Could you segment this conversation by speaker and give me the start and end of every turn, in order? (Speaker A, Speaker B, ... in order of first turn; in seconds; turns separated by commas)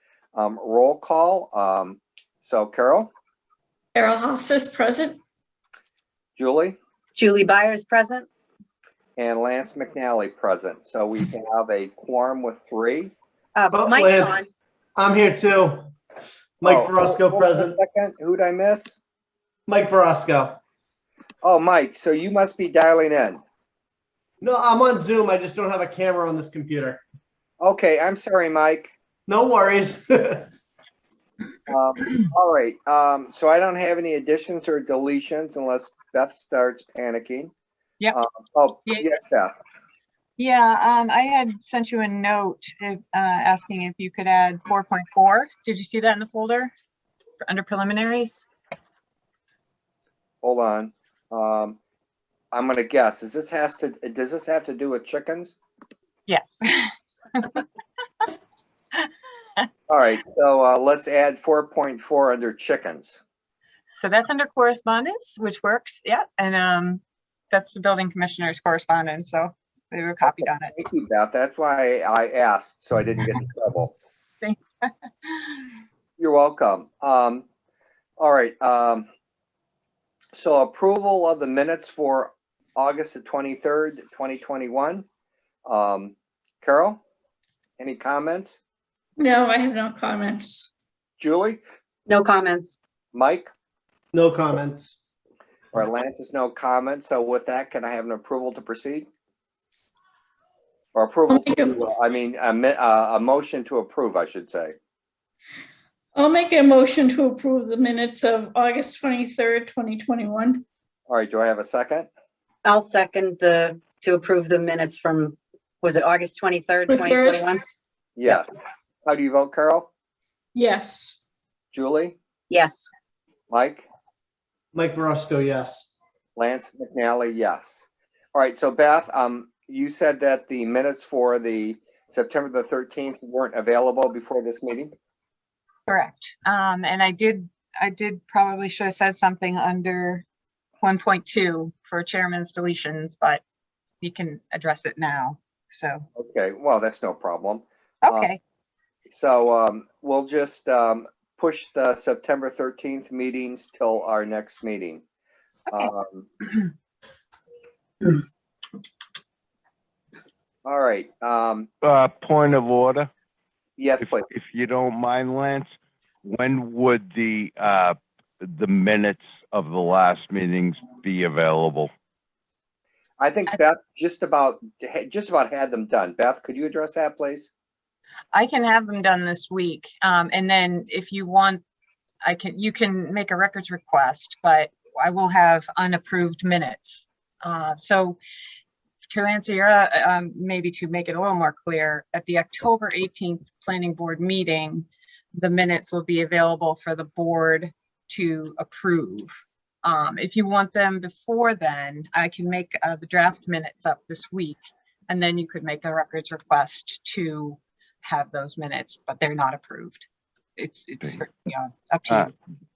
Speaker A: 0.3-3.1, Speaker B: 3.9-5.2, Speaker A: 6.4-6.8, Speaker C: 7.2-8.3, Speaker A: 9.2-13.1, Speaker C: 13.6-14.5, Speaker D: 13.7-14.4, Speaker D: 14.9-15.9, Speaker D: 16.6-17.8, Speaker A: 16.6-19.0, Speaker D: 19.7-20.6, Speaker A: 21.4-23.4, Speaker D: 24.4-27.0, Speaker A: 27.6-28.9, Speaker D: 29.3-30.5, Speaker A: 31.7-37.5, Speaker A: 38.1-39.5, Speaker E: 38.9-39.1, Speaker E: 40.4-46.7, Speaker E: 47.4-48.5, Speaker A: 50.4-51.8, Speaker A: 52.5-55.5, Speaker E: 56.3-57.6, Speaker A: 59.9-63.2, Speaker E: 63.9-70.7, Speaker A: 70.2-73.9, Speaker E: 74.4-75.7, Speaker A: 76.2-77.4, Speaker A: 78.2-79.1, Speaker A: 80.3-85.0, Speaker A: 85.7-87.0, Speaker A: 87.8-88.6, Speaker B: 89.2-90.7, Speaker A: 91.2-91.6, Speaker C: 92.1-92.8, Speaker A: 93.1-93.5, Speaker D: 94.1-94.9, Speaker A: 95.7-99.1, Speaker A: 100.9-104.7, Speaker B: 101.3-101.8, Speaker B: 106.2-110.6, Speaker A: 111.1-112.1, Speaker C: 112.6-117.6, Speaker B: 116.9-117.4, Speaker A: 118.2-118.5, Speaker A: 119.0-119.9, Speaker B: 120.5-121.2, Speaker A: 121.7-122.2, Speaker C: 122.5-122.9, Speaker A: 123.5-123.8, Speaker D: 124.7-125.9, Speaker A: 126.4-134.9, Speaker E: 135.9-140.2, Speaker E: 140.8-143.4, Speaker E: 144.0-146.1, Speaker A: 146.2-148.3, Speaker E: 148.0-148.4, Speaker A: 149.1-155.0, Speaker A: 155.7-156.3, Speaker A: 160.6-161.7, Speaker F: 161.8-163.1, Speaker A: 163.8-164.3, Speaker F: 164.0-165.7, Speaker F: 166.2-171.9, Speaker A: 173.2-177.5, Speaker E: 178.3-181.6, Speaker E: 182.2-188.2, Speaker E: 189.1-199.3, Speaker E: 199.8-212.3